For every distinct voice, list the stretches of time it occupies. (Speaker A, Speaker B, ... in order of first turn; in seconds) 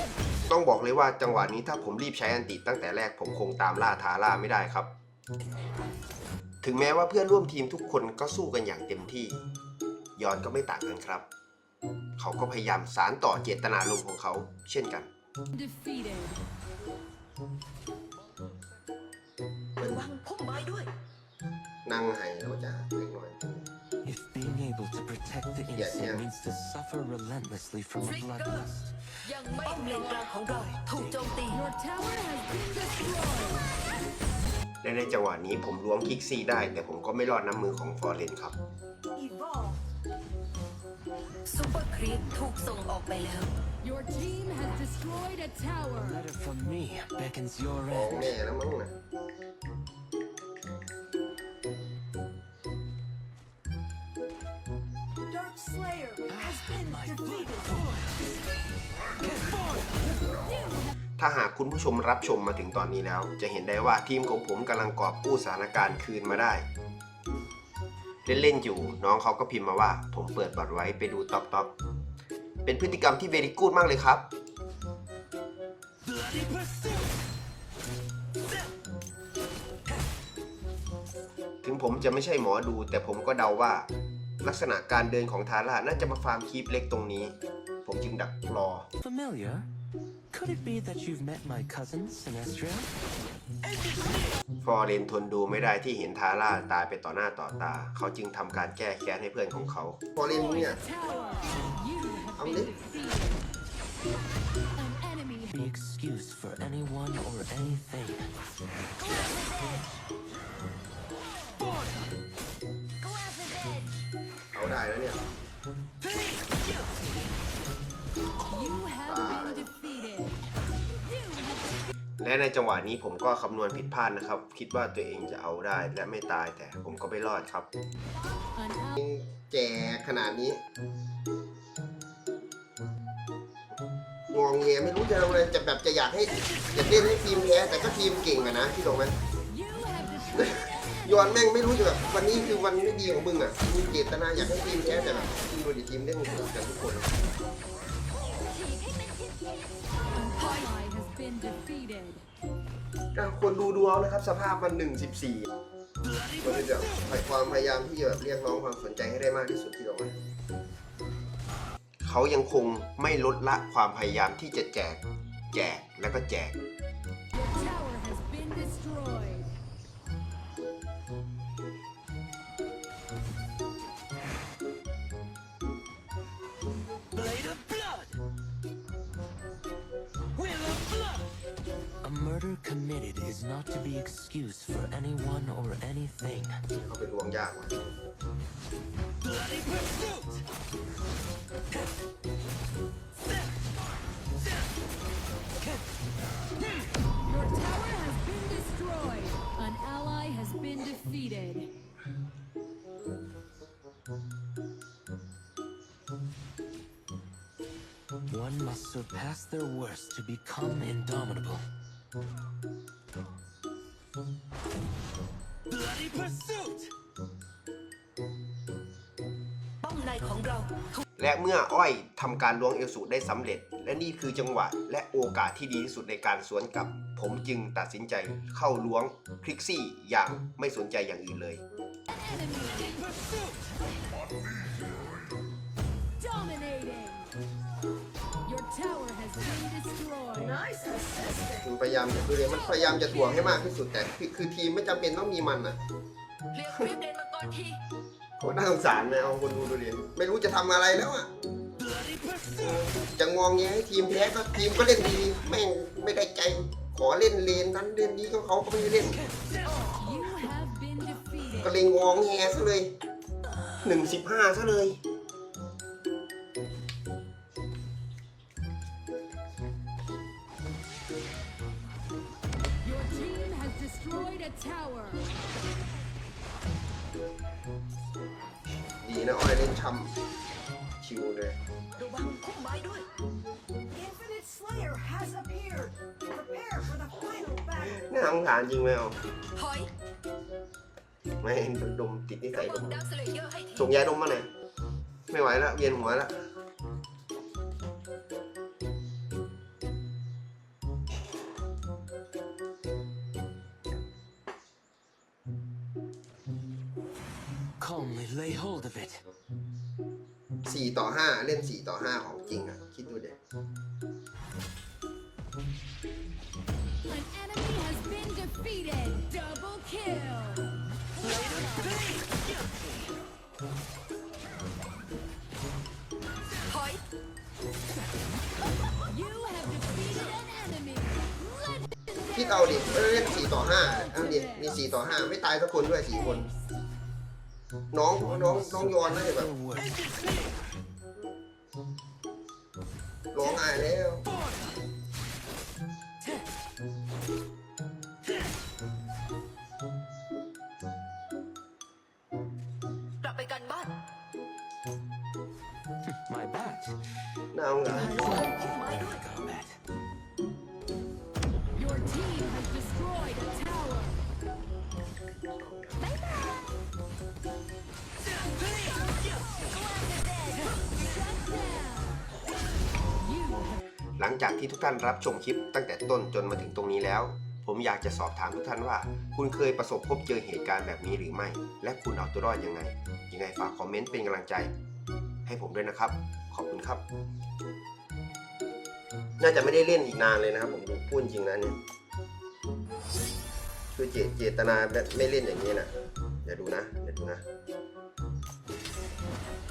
Speaker A: 0.5-4.9, 6.6-9.4, 10.2-11.2, 12.2-15.1, 21.8-23.6, 25.7-26.2, 34.8-38.5, 47.9-48.9, 61.2-66.6, 68.2-71.7, 72.6-74.2, 81.6-83.9, 84.4-88.9, 94.6-100.8, 102.4-102.7, 114.5-115.2, 119.0-119.7, 122.2-127.7, 128.9-130.6, 134.3-139.2, 140.3-147.1, 153.1-155.5, 156.4-160.1, 162.0-166.6, 186.7-187.9, 221.2-231.6, 241.6-245.8, 248.4-251.3, 252.5-259.2, 261.6-262.9, 263.8-265.0, 279.0-280.1, 281.0-281.6, 287.9-289.2, 291.4-293.0, 293.7-294.5, 295.3-296.3, 310.6-313.4, 332.3-336.5, 337.9-339.5, 343.3-344.3, 357.5-358.5, 374.2-384.7, 385.4-387.0, 389.4-391.8, 393.9-395.9, 396.4-397.4
Speaker B: 15.5-16.4, 29.8-30.2, 31.5-33.7, 43.8-46.2, 60.5-60.9, 100.3-103.4, 104.8-105.5, 113.0-113.7, 118.5-120.4, 121.1-121.6, 128.6-128.9, 139.5-142.7, 148.5-149.4, 150.1-152.2, 167.3-169.5, 197.2-201.7, 232.1-233.1, 236.2-237.3, 238.4-240.6, 242.8-243.4, 259.6-261.7, 272.8-275.2, 317.1-320.7, 329.0-331.8, 333.7-334.8, 361.7-364.2, 370.2-372.2, 373.2-373.8
Speaker C: 19.8-20.9, 28.0-28.5, 29.3-29.8, 30.3-31.5, 41.5-43.5, 219.8-220.6, 246.5-247.7, 282.0-282.9, 289.5-289.9, 292.6-293.6, 326.7-327.0, 353.2-353.7, 358.5-359.1
Speaker D: 24.0-28.9, 30.5-31.2, 46.0-48.4, 56.3-58.1, 59.2-59.6, 89.0-89.7, 90.3-92.9, 105.5-108.3, 177.1-178.2, 180.3-181.3, 182.0-186.6, 189.5-190.3, 208.3-211.6, 215.7-216.9, 307.8-309.2, 338.2-340.3, 356.1-357.0, 357.8-359.8
Speaker E: 29.6-30.1, 39.1-39.8, 55.3-57.5, 240.5-241.6, 283.9-288.0